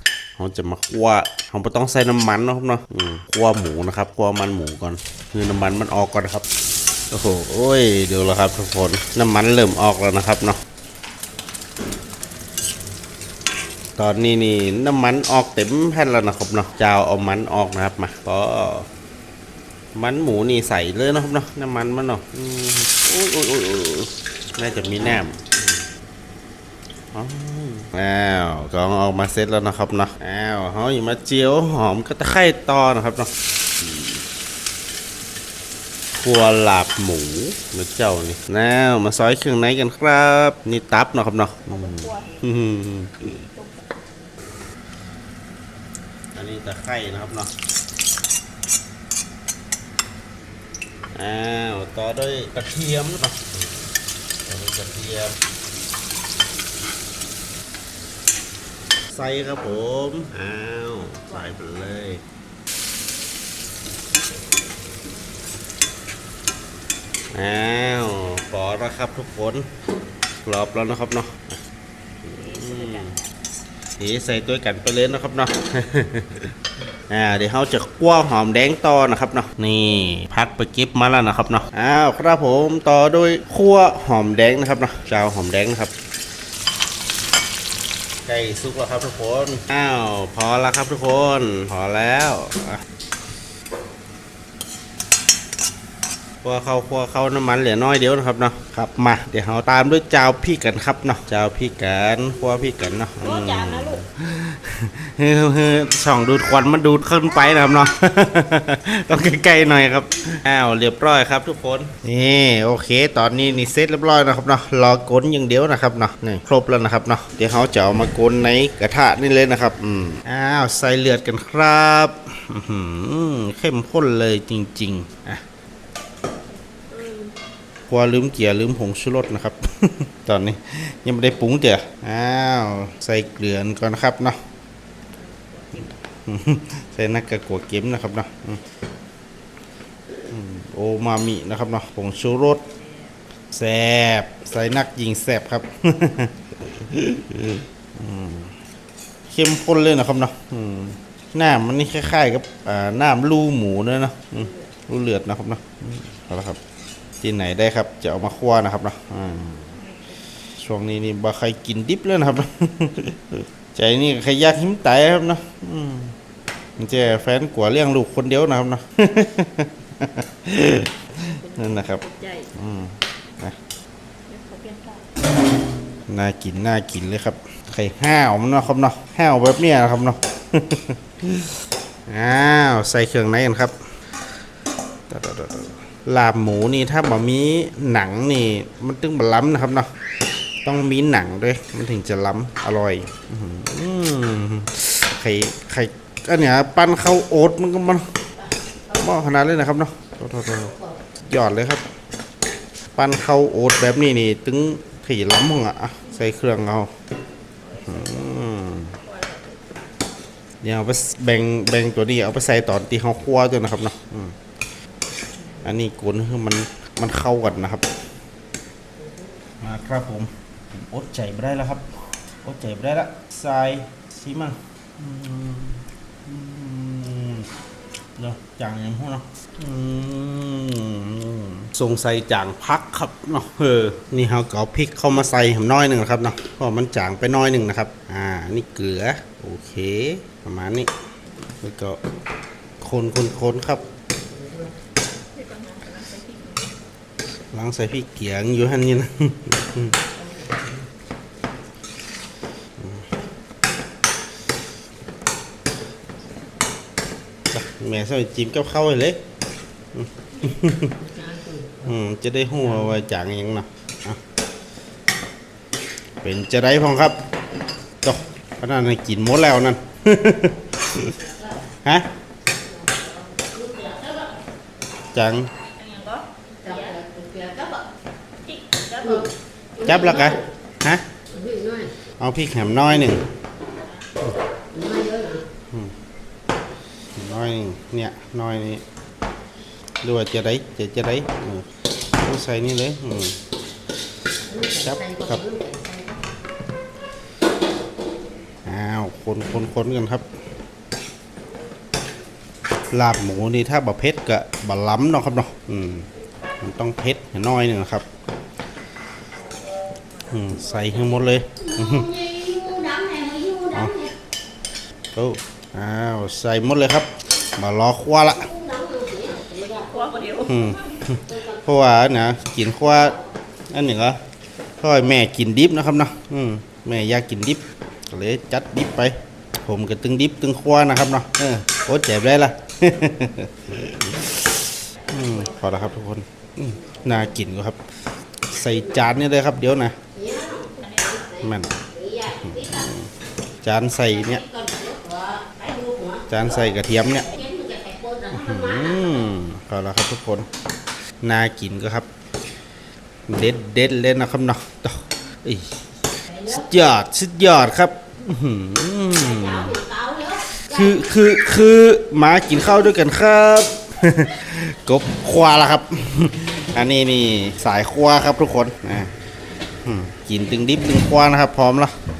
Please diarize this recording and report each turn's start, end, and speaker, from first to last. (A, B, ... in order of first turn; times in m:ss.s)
0:00.4-0:06.4 A
0:07.1-0:10.6 A
0:14.0-0:18.9 A
0:20.0-0:25.8 A
0:27.1-0:33.3 A
0:33.8-0:34.2 A
0:36.2-0:43.4 A
0:41.7-0:42.4 B
0:43.5-0:43.8 B
0:46.4-0:47.5 A
0:51.1-0:53.8 A
0:54.5-0:55.3 A
0:59.1-1:02.2 A
1:07.3-1:09.7 A
1:10.4-1:11.6 A
1:12.2-1:13.2 A
1:12.5-1:13.2 B
1:14.0-1:16.5 A
1:17.1-1:25.9 A
1:28.2-1:32.8 A
1:36.4-2:05.4 A
2:06.9-2:07.3 B
2:07.9-2:14.4 A
2:15.2-2:15.8 B
2:15.8-2:18.6 A
2:20.3-2:22.6 A
2:23.5-2:28.5 A
2:29.3-2:36.6 A
2:37.2-2:39.8 A
2:39.8-2:40.2 B
2:40.6-2:46.1 A
2:46.8-2:52.0 A
2:51.2-2:52.5 B
2:52.5-2:53.6 A
2:54.3-2:55.1 B
2:56.1-3:01.5 A
3:02.1-3:03.7 A
3:05.1-3:09.9 A
3:10.6-3:18.1 A
3:18.9-3:21.8 A
3:23.0-3:26.9 A
3:27.8-3:29.0 A
3:29.0-3:29.6 B
3:30.6-3:34.4 A
3:35.6-3:37.8 A
3:39.6-3:41.8 A
3:42.4-3:47.5 A
3:48.2-4:00.9 A
4:01.6-4:02.0 A
4:02.8-4:03.8 A
4:05.3-4:06.7 B
4:07.5-4:10.0 A
4:12.8-4:13.1 A
4:17.5-4:19.2 A
4:19.9-4:21.1 A
4:21.7-4:24.2 A
4:26.2-4:27.2 A
4:28.0-4:31.1 A
4:33.7-4:34.1 C
4:35.1-4:35.5 A
4:35.7-4:37.0 B
4:36.8-4:37.7 C
4:38.4-4:39.3 B
4:39.8-4:41.0 A
4:41.5-4:41.8 C
4:42.2-4:43.2 A
4:44.9-4:45.3 C
4:47.1-4:48.8 A
4:50.0-4:53.4 A
4:54.6-4:55.5 A
4:55.6-4:56.0 C
4:58.6-5:00.2 A
5:02.9-5:06.1 A
5:06.6-5:08.1 A
5:10.3-5:12.2 A
5:12.2-5:13.6 C
5:13.7-5:14.0 A
5:15.1-5:18.6 A
5:18.7-5:20.1 C
5:19.3-5:20.5 B
5:20.4-5:23.2 A
5:23.7-5:24.2 A
5:24.8-5:37.8 A
5:38.5-5:40.0 A
5:40.3-5:40.7 C
5:40.8-5:41.3 B
5:41.4-5:43.1 A
5:43.6-5:44.4 A
5:44.5-5:46.2 C
5:46.3-5:47.4 A
5:47.4-5:48.2 C
5:48.3-5:50.5 A
5:51.2-5:52.1 A
5:53.3-5:55.7 A
5:56.4-5:59.9 A
6:00.5-6:09.1 A
6:09.8-6:11.9 A